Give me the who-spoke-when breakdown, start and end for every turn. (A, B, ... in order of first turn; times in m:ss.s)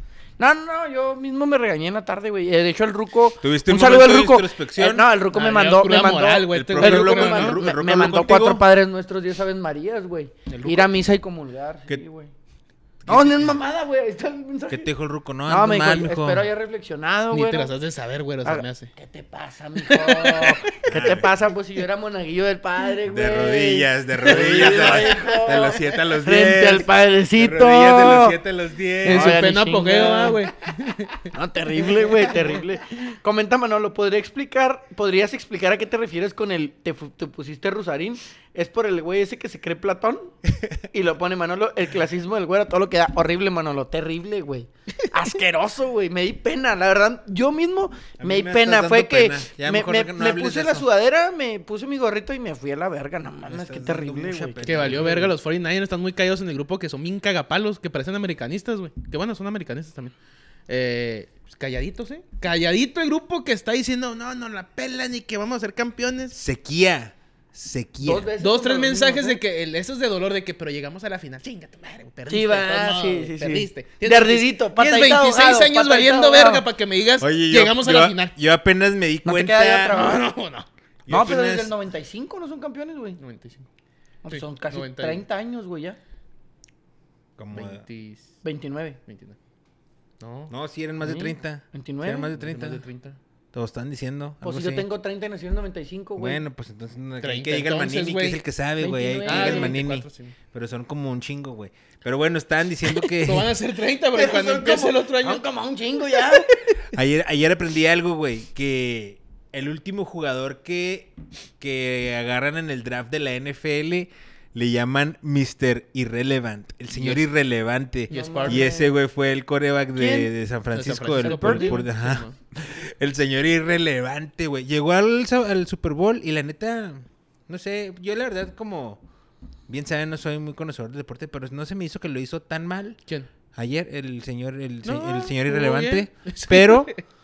0:00.4-0:12.3 A
0:03.4-0:05.1 B
0:05.3-0:07.6 C
0:06.5-0:08.7 B
0:10.5-0:10.9 C
0:13.0-0:13.6 B
0:13.1-0:14.9 A
0:14.7-0:16.5 B
0:15.5-0:17.7 A
0:17.3-0:18.9 C
0:18.4-0:28.4 A
0:19.8-0:20.7 C
0:20.8-0:21.4 B
0:23.1-0:29.5 B
0:29.0-0:30.4 A
0:29.0-0:31.3 C
0:31.3-0:40.3 A
0:32.0-0:32.4 C
0:40.9-0:55.0 A
0:48.2-0:50.9 B
0:53.5-0:55.3 B
0:54.6-1:00.1 C
1:00.7-1:06.4 C
1:06.3-1:08.3 B
1:08.0-1:09.4 A
1:08.4-1:18.4 C
1:12.3-1:16.6 A
1:17.2-1:20.0 B
1:19.2-1:20.3 A
1:19.9-1:20.7 C
1:21.1-1:21.7 B
1:21.1-1:23.2 A
1:23.2-1:23.7 C
1:24.2-1:26.0 A
1:24.3-1:25.2 C
1:27.4-1:27.8 B
1:27.5-1:28.4 C
1:28.4-1:29.0 A
1:29.1-1:29.4 C
1:30.2-1:30.5 C
1:30.5-1:32.8 B
1:31.0-1:32.3 A
1:32.4-1:33.2 C
1:33.5-1:34.9 B
1:34.4-1:36.4 A
1:36.2-1:43.5 B
1:37.2-1:38.4 C
1:38.8-1:39.8 A
1:39.2-1:40.4 C
1:43.0-1:45.4 C
1:44.1-1:46.5 A
1:46.9-2:09.0 B
1:56.9-1:57.3 C
1:58.1-1:58.7 C
1:58.1-1:58.9 A
2:00.0-2:00.3 A
2:00.7-2:02.4 C
2:01.2-2:01.8 A
2:09.7-2:13.0 B
2:13.6-2:16.9 B
2:14.8-2:17.0 C